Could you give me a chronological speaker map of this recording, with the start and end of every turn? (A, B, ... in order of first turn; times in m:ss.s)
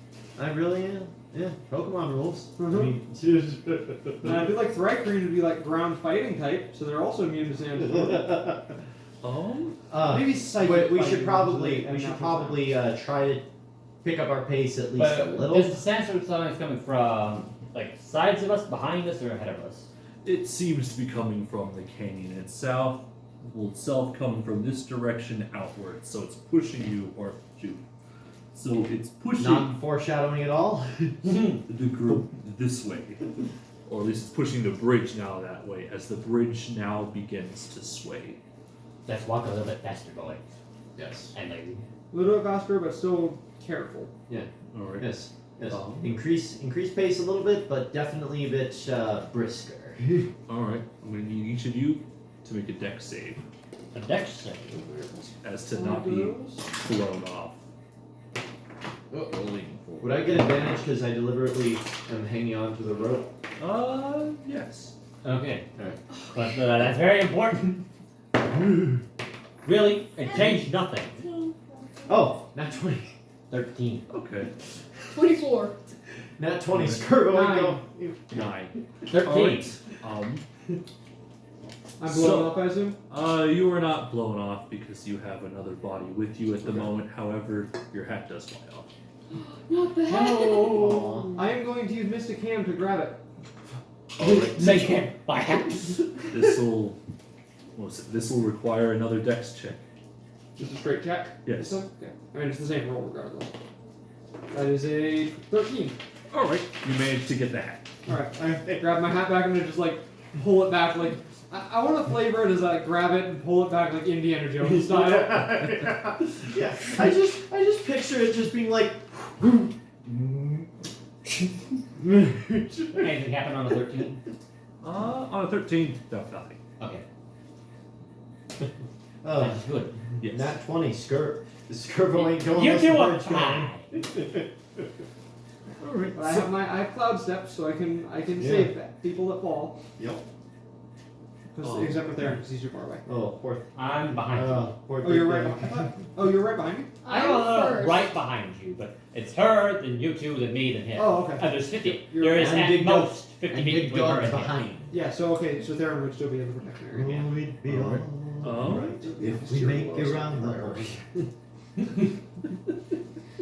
0:00.4-0:04.5 A
0:02.6-0:02.9 B
0:04.2-0:08.4 B
0:07.8-0:08.7 A
0:09.2-0:09.8 C
0:09.9-0:13.4 A
0:10.0-0:12.7 B
0:14.0-0:15.8 A
0:14.9-0:19.9 D
0:20.2-0:27.8 C
0:28.5-0:29.7 C
0:29.4-0:31.3 A
0:31.2-0:31.6 D
0:31.7-0:33.3 C
0:33.9-0:38.4 C
0:39.0-0:40.4 D
0:41.0-0:41.3 A
0:41.3-0:41.8 D
0:42.1-0:44.1 B
0:44.3-0:50.3 A
0:44.7-0:46.1 C
0:50.5-0:53.4 C
0:53.9-0:54.8 D
0:54.8-0:56.6 B
0:55.4-0:57.6 C
0:59.1-1:00.6 C
1:00.0-1:03.3 A
1:03.6-1:04.9 C
1:05.2-1:05.7 D
1:06.3-1:07.8 D
1:09.6-1:11.2 D
1:11.2-1:12.1 E
1:12.1-1:13.1 A
1:13.5-1:14.0 D
1:14.1-1:14.5 C
1:15.1-1:15.9 E
1:16.4-1:18.5 A
1:16.7-1:17.2 C
1:17.3-1:17.8 B
1:18.3-1:20.4 C
1:19.1-1:19.8 D
1:22.0-1:23.0 B
1:22.0-1:28.9 C
1:29.4-1:31.4 E
1:30.1-1:31.2 D
1:30.6-1:30.8 B
1:30.7-1:31.3 A
1:31.4-1:33.2 B
1:34.2-1:35.0 C
1:34.2-1:36.1 D
1:36.3-1:37.0 C
1:37.8-1:39.8 C
1:40.6-1:43.5 B
1:41.4-1:41.8 C
1:44.5-1:46.0 B
1:46.3-1:47.9 C
1:48.1-1:55.6 B
1:48.1-1:48.9 A
1:54.6-2:00.7 A
2:02.0-2:03.1 A
2:02.9-2:04.2 D
2:04.8-2:06.6 C
2:06.8-2:07.0 D
2:09.2-2:09.6 A
2:09.3-2:10.0 D
2:10.2-2:10.6 C
2:10.2-2:14.4 A
2:12.1-2:13.9 D
2:15.8-2:16.5 C
2:16.2-2:19.8 B
2:18.4-2:18.7 A
2:20.0-2:20.2 A
2:21.5-2:23.0 B
2:21.6-2:22.2 C
2:23.1-2:25.8 A
2:23.8-2:24.7 D
2:25.0-2:27.2 B
2:27.0-2:28.1 E
2:27.1-2:34.6 D
2:31.0-2:32.6 B
2:32.4-2:35.0 A
2:34.9-2:37.3 B
2:36.9-2:41.3 A
2:37.7-2:39.0 C
2:38.8-2:40.9 B